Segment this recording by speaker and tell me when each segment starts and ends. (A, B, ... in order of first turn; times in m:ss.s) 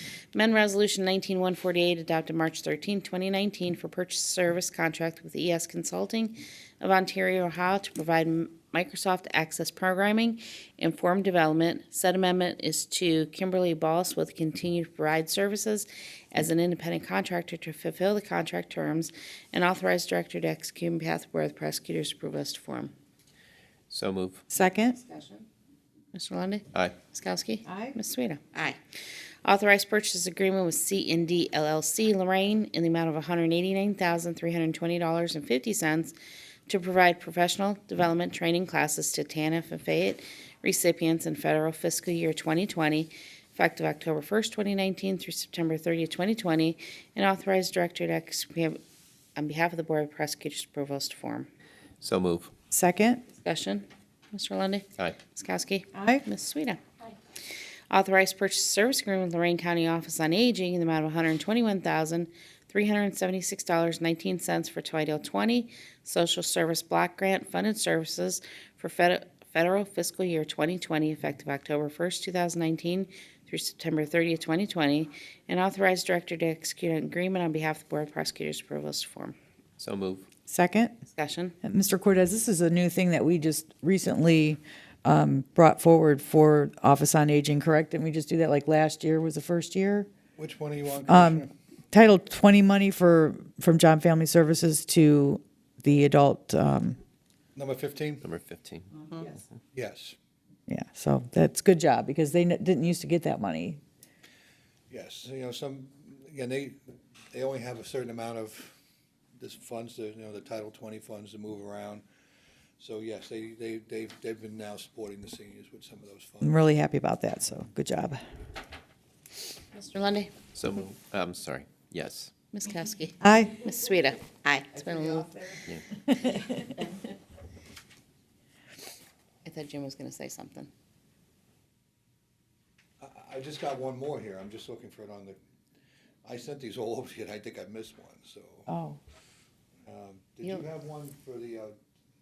0:00.3-0:22.9 A
0:23.9-0:24.4 B
0:24.5-0:25.0 C
0:25.0-0:25.4 A
0:26.1-0:28.6 A
0:26.7-0:27.0 B
0:27.6-0:27.9 C
0:29.4-0:36.1 A
0:36.7-0:48.8 A
0:49.4-0:51.5 A
0:52.0-0:52.5 B
0:52.7-0:53.2 C
0:53.3-0:56.8 A
0:55.9-0:56.2 C
0:57.9-1:19.3 A
1:19.8-1:20.3 B
1:20.5-1:21.0 C
1:21.1-1:21.5 A
1:21.6-1:30.1 C
1:30.4-1:31.5 D
1:31.1-1:37.0 C
1:37.6-1:38.2 D
1:38.2-1:39.0 B
1:39.7-1:40.2 D
1:40.7-1:43.8 C
1:44.9-1:48.8 D
1:49.4-1:52.0 D
1:52.8-1:56.6 D
1:56.4-1:58.2 C
1:59.7-2:00.4 A
2:00.5-2:02.4 B
2:02.5-2:05.3 A
2:03.2-2:03.6 C
2:04.8-2:06.7 C
2:09.4-2:10.7 A
2:13.0-2:15.4 D
2:16.2-2:18.7 D
2:18.7-2:19.0 C
2:19.8-2:21.8 D